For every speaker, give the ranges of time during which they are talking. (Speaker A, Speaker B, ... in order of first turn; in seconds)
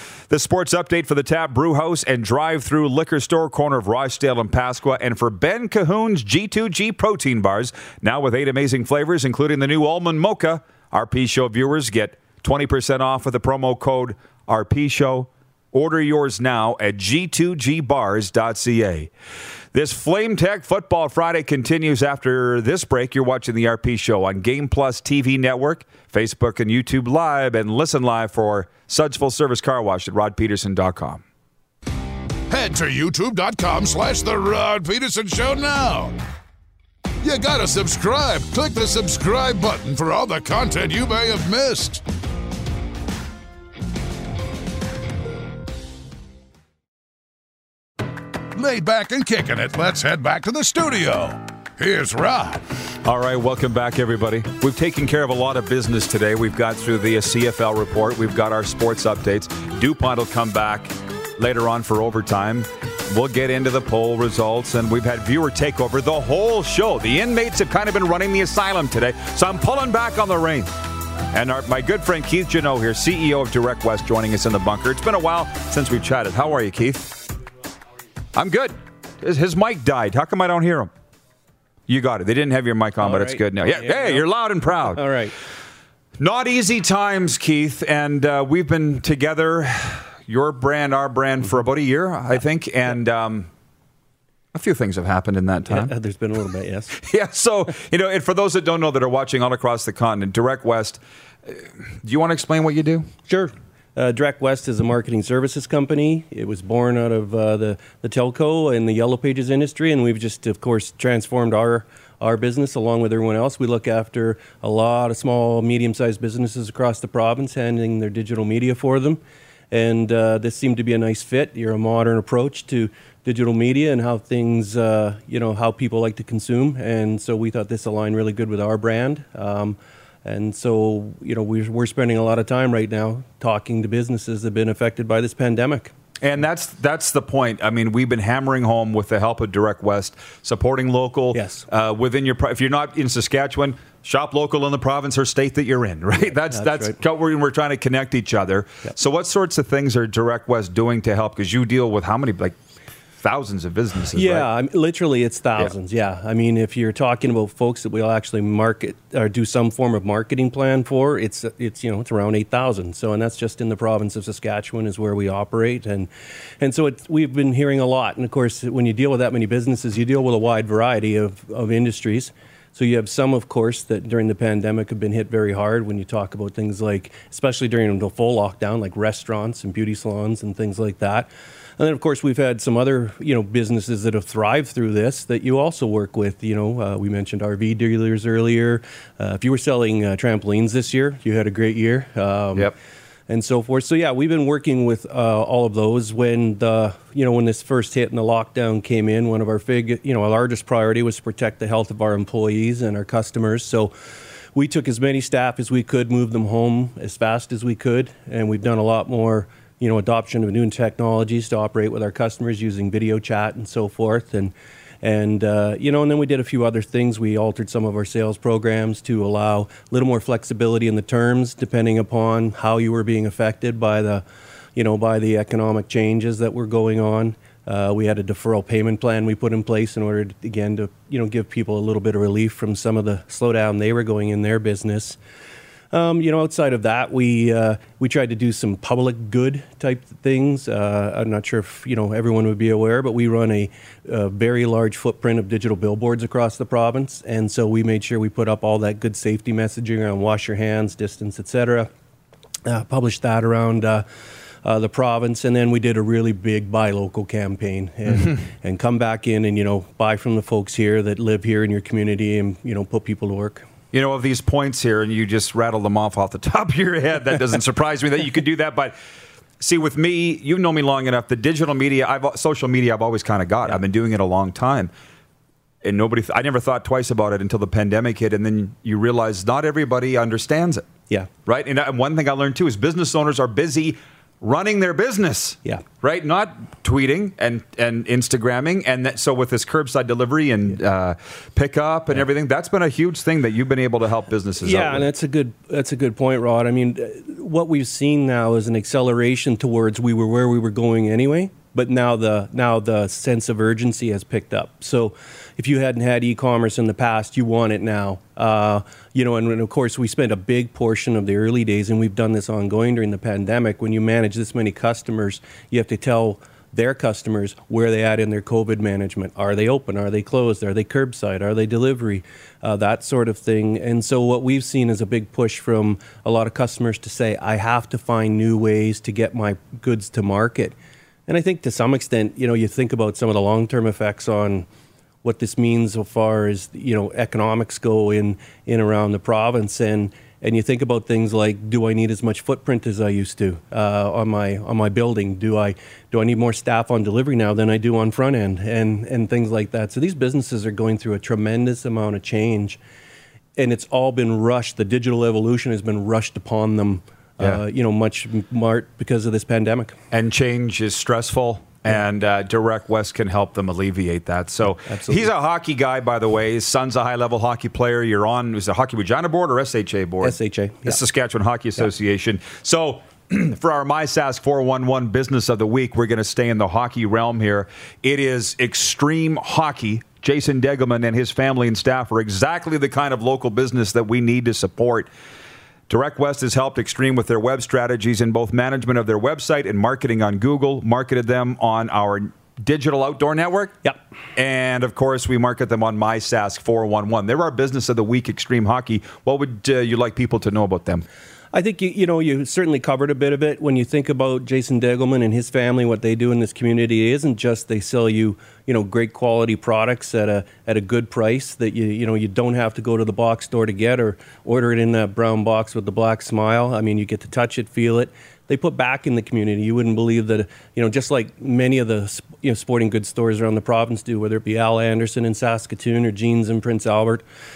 Speaker A: 0.3-19.1, 19.7-31.2, 53.0-70.7, 71.3-77.2, 78.3-80.9, 81.9-85.0, 86.2-93.5, 94.5-95.9, 97.0-103.1, 136.2-152.6, 153.2-154.5, 263.9-268.9, 269.6-274.9, 275.8-280.9, 281.4-295.1, 360.1-385.1, 385.9-393.7, 394.4-401.0
Speaker B: 32.5-36.1, 37.2-42.0, 48.5-52.6
Speaker C: 83.0-84.3, 84.8-85.3, 95.7-97.0, 103.3-119.2, 119.7-135.9, 141.3-141.7, 146.5-146.9, 154.1-166.1, 166.6-192.7, 193.3-203.9, 204.5-224.2, 224.8-235.2, 235.9-251.9, 252.7-254.0, 254.6-263.6, 294.6-330.7, 331.3-334.6, 335.2-352.8, 353.6-359.9, 364.9-365.3, 370.2-371.0, 401.5-427.2